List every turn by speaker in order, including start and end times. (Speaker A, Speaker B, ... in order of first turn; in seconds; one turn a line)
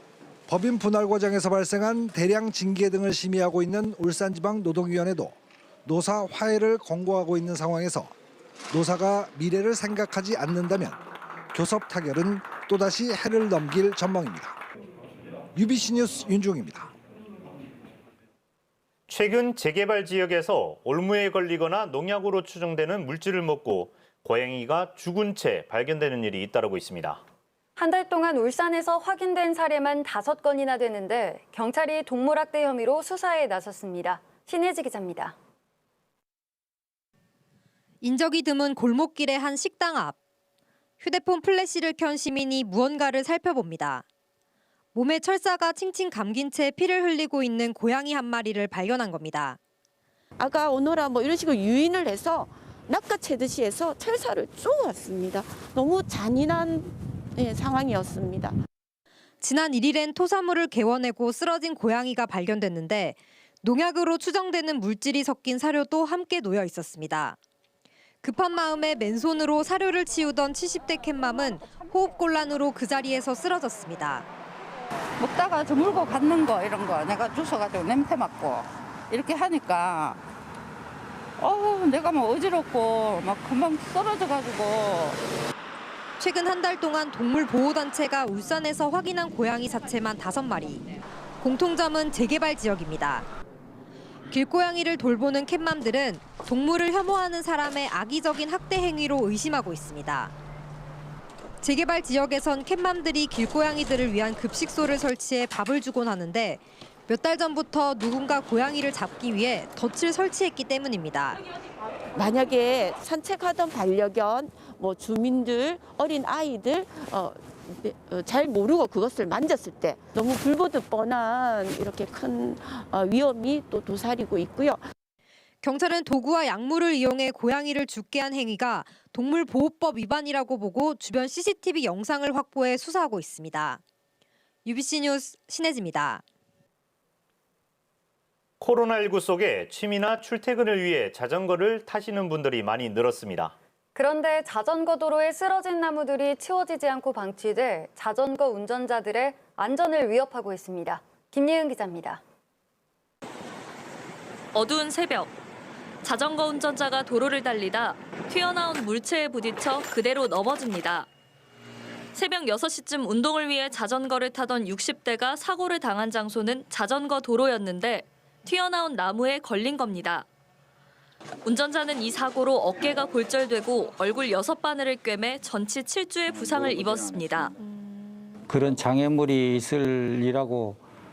Speaker A: 0.5-5.3
Speaker A: 5.9-8.1
Speaker A: 8.7-11.0
Speaker A: 11.5-14.6
Speaker A: 15.6-16.9
Speaker B: 19.1-27.2
Speaker C: 27.8-35.4
Speaker D: 38.0-40.2
Speaker D: 41.0-44.0
Speaker D: 45.0-49.6
Speaker E: 50.4-58.5
Speaker D: 59.4-67.4
Speaker D: 68.2-74.2
Speaker F: 75.2-80.2
Speaker F: 81.4-85.2
Speaker D: 86.2-93.3
Speaker D: 94.3-100.3
Speaker D: 101.6-111.4
Speaker E: 112.2-124.8
Speaker D: 125.6-133.8
Speaker D: 134.7-136.2
Speaker B: 138.6-143.5
Speaker C: 143.9-152.2
Speaker G: 154.5-155.3
Speaker G: 156.0-161.1
Speaker G: 162.1-170.3
Speaker G: 171.4-178.3
Speaker H: 178.5-180.8